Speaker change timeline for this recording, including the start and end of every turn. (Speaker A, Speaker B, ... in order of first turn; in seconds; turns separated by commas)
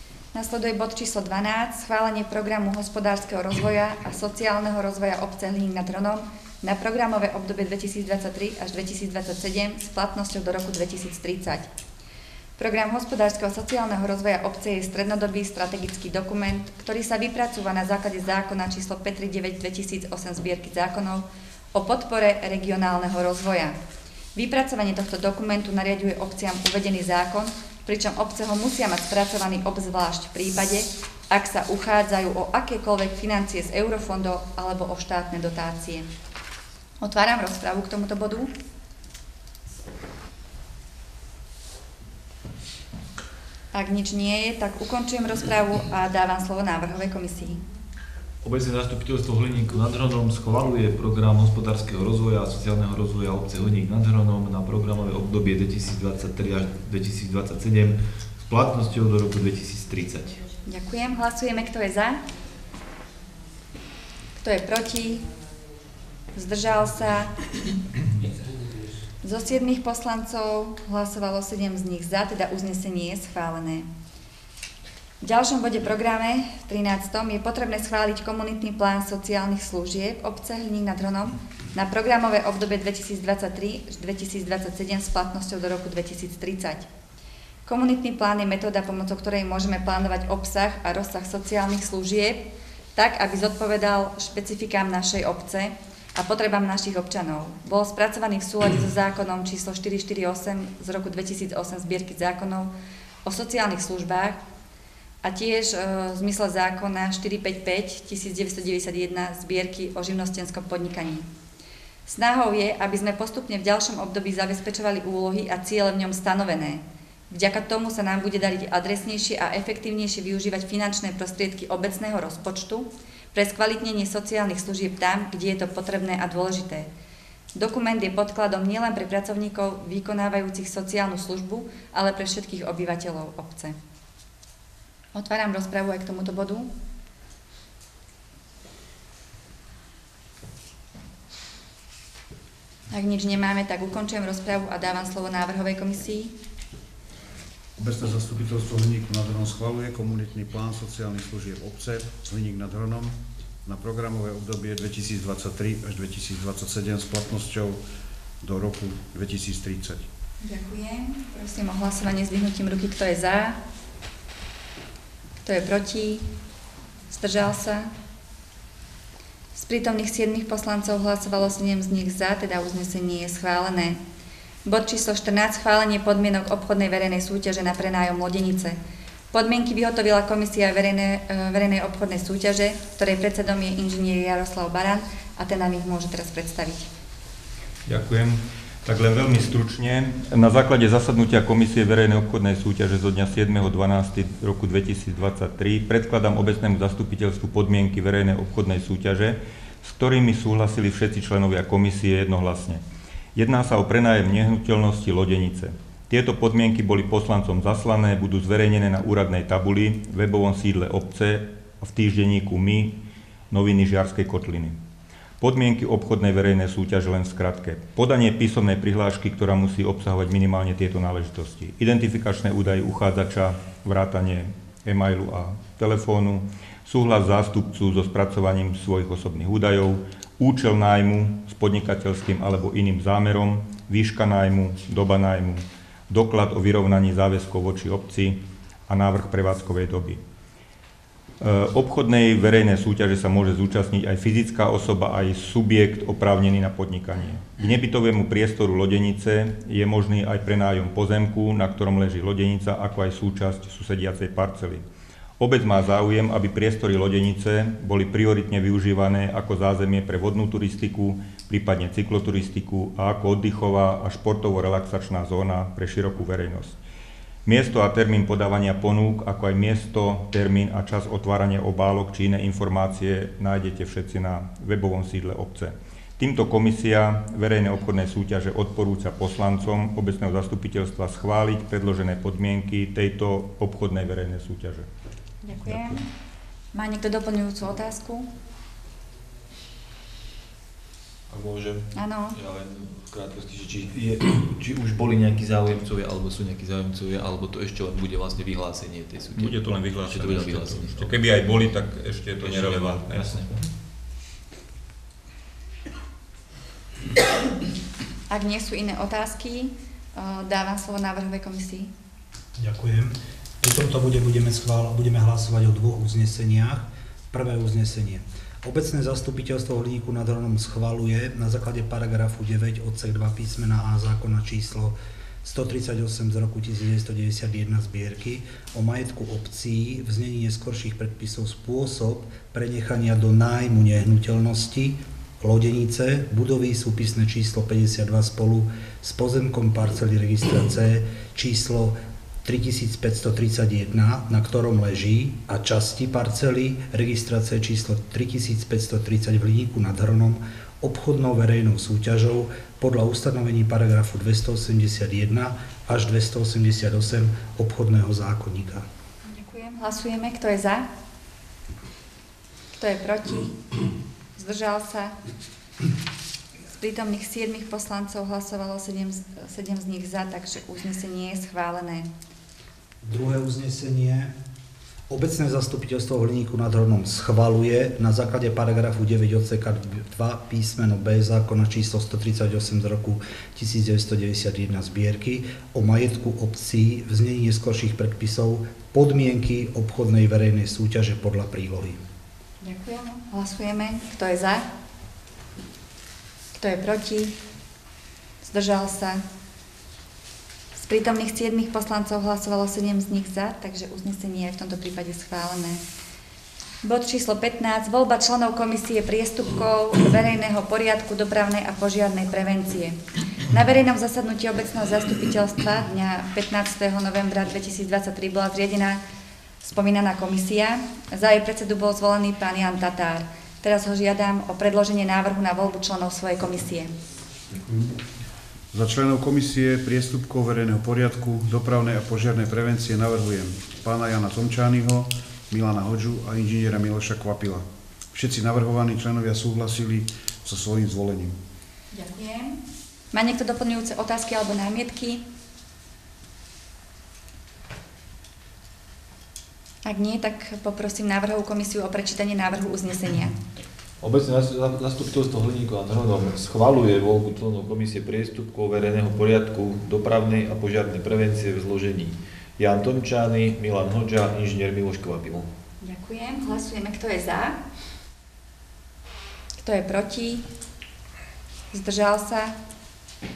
Speaker A: 0.3-11.7, Speaker A: 12.6-23.8, Speaker A: 24.4-36.1, Speaker A: 37.0-38.5, Speaker A: 43.7-47.6, Speaker B: 48.4-60.4, Speaker A: 60.6-62.2, Speaker A: 64.4-65.2, Speaker A: 66.3-67.3, Speaker A: 69.2-73.9, Speaker A: 75.2-86.8, Speaker A: 87.7-92.4, Speaker A: 93.0-102.7, Speaker A: 103.2-104.4, Speaker A: 105.2-111.3, Speaker A: 112.1-126.9, Speaker A: 127.5-133.8, Speaker A: 135.1-136.7, Speaker A: 142.9-146.3, Speaker C: 147.8-157.8, Speaker C: 158.4-160.1, Speaker A: 160.4-163.6, Speaker A: 165.4-166.2, Speaker A: 167.1-167.9, Speaker A: 169.6-174.0, Speaker A: 174.6-178.8, Speaker A: 179.3-186.9, Speaker D: 187.9-202.8, Speaker D: 203.3-212.9, Speaker D: 213.5-214.7, Speaker D: 215.4-240.2, Speaker D: 241.4-254.8, Speaker D: 255.4-266.8, Speaker D: 267.4-284.9, Speaker A: 285.4-286.0, Speaker A: 286.7-288.3, Speaker B: 291.3-301.2, Speaker A: 291.9-292.4, Speaker D: 299.4-303.4, Speaker B: 302.4-303.7, Speaker A: 308.3-311.9, Speaker E: 312.6-358.8, Speaker A: 359.3-360.9, Speaker A: 362.7-363.6, Speaker A: 364.4-365.1, Speaker A: 366.6-372.1, Speaker E: 373.0-374.3, Speaker E: 375.1-392.0, Speaker A: 392.6-394.6, Speaker A: 396.5-397.4, Speaker A: 398.4-399.2, Speaker A: 400.8-405.8, Speaker A: 406.8-419.0, Speaker A: 419.6-426.9, Speaker C: 428.7-441.4, Speaker A: 441.9-442.6, Speaker A: 443.1-445.2, Speaker A: 449.8-453.3, Speaker B: 454.0-465.5, Speaker A: 465.8-467.6, Speaker A: 469.6-470.4, Speaker A: 471.7-472.6